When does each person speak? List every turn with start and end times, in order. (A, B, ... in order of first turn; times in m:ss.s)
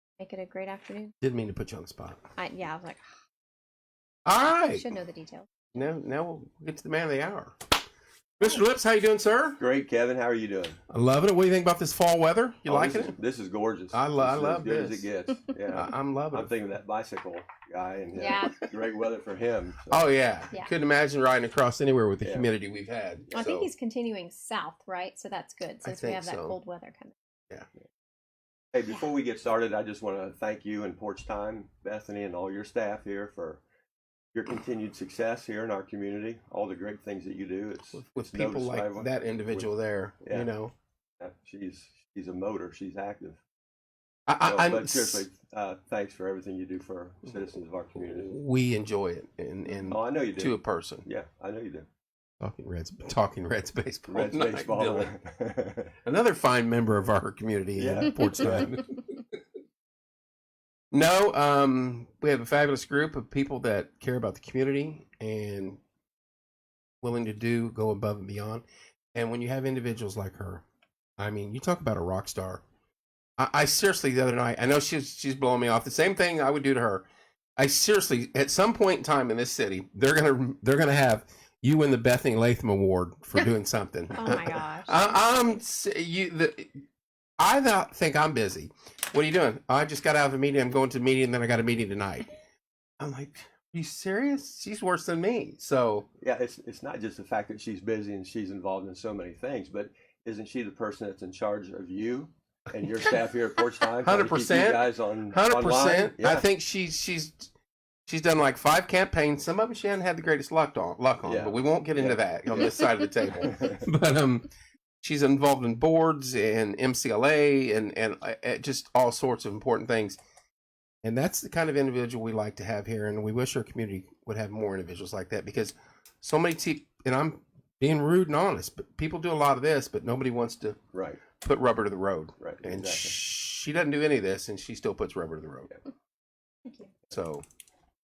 0:00.2-0:01.1 A
0:01.2-0:02.2 B
0:02.4-0:03.0 A
0:04.2-0:04.9 B
0:04.6-0:05.5 A
0:05.7-0:07.6 B
0:08.4-0:09.6 B
0:09.6-0:10.8 C
0:10.9-0:13.2 B
0:12.7-0:20.1 C
0:13.9-0:15.1 B
0:15.7-0:16.5 B
0:18.1-0:18.6 A
0:19.9-0:23.7 B
0:23.3-0:27.2 A
0:25.8-0:26.6 B
0:28.7-0:33.6 C
0:34.3-0:39.7 C
0:37.9-0:40.7 B
0:41.2-0:43.4 C
0:44.3-0:45.2 B
0:44.4-0:48.4 C
0:48.1-0:51.1 B
0:49.9-0:51.9 C
0:52.4-0:55.1 B
0:54.1-0:56.0 C
0:56.0-0:59.2 B
0:57.8-0:58.7 C
1:00.9-1:05.8 B
1:07.0-1:10.6 B
1:11.2-1:12.6 B
1:13.4-1:26.7 B
1:24.2-1:25.5 A
1:27.4-1:32.3 B
1:33.0-1:36.1 B
1:36.2-1:46.5 C
1:44.0-1:47.5 B
1:48.1-1:54.5 B
1:51.2-1:52.7 C
1:53.4-1:53.8 C
1:55.0-2:00.2 B
2:01.0-2:10.8 B
2:10.9-2:11.2 C
2:11.4-2:15.7 B
2:12.4-2:13.2 C
2:17.1-2:17.4 B